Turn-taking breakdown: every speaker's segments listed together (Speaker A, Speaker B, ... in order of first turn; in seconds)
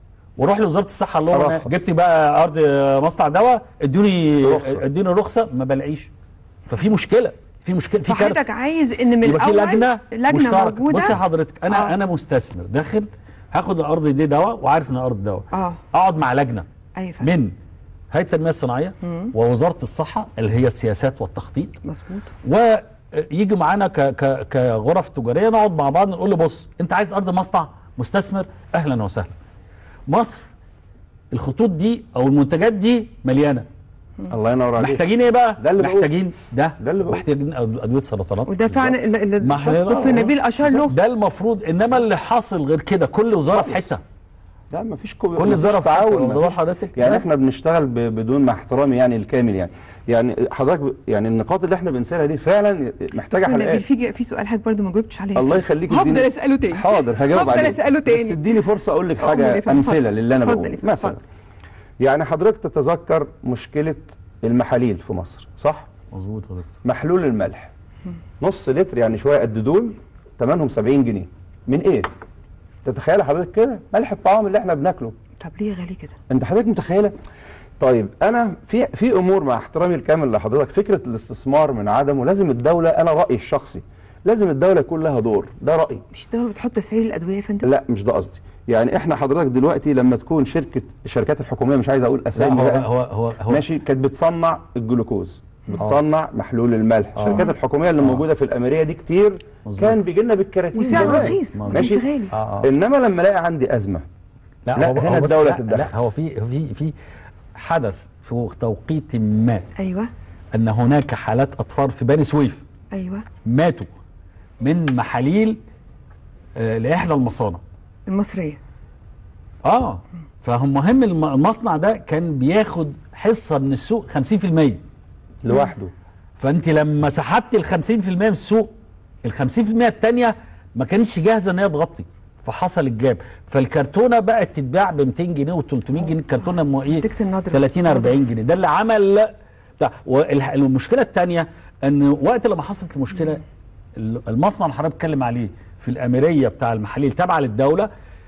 Speaker A: 0.4-6.1, 6.7-8.5, 9.2-16.7, 17.2-17.5, 18.1-21.8, 22.4-29.3, 30.1-30.4, 31.3-33.7, 34.8-44.0, 45.4-47.3, 66.1-66.7, 92.3-93.7, 95.8-96.0, 97.2-98.3, 99.6-100.0, 100.9-102.7, 104.7-106.9, 107.5-109.7, 110.5-112.6, 113.5-113.9, 114.6-115.6, 116.6-117.6, 119.6-124.8, 126.4-128.7, 129.2-143.4, 144.0-147.9
Speaker B: 1.3-1.7, 4.4-4.8, 34.3-36.1, 36.8-37.2, 43.5-43.9, 44.7-53.8, 55.4-61.2, 62.0-65.9, 66.8-67.7, 68.4-72.1, 72.8-75.1, 76.3-77.1, 77.8-86.0, 87.6-92.9, 93.5-102.1, 102.6-104.0, 104.8-105.9, 125.4-125.9
Speaker C: 8.1-11.1, 11.7-11.9, 15.5-15.8, 17.0-17.3, 19.0-19.3, 21.9-22.3, 38.5-40.9, 53.4-58.4, 59.2-61.2, 75.4-76.2, 86.1-87.7, 97.3-97.5, 100.8-102.3, 109.8-110.1, 112.9-113.2, 118.1-118.6, 137.0-138.1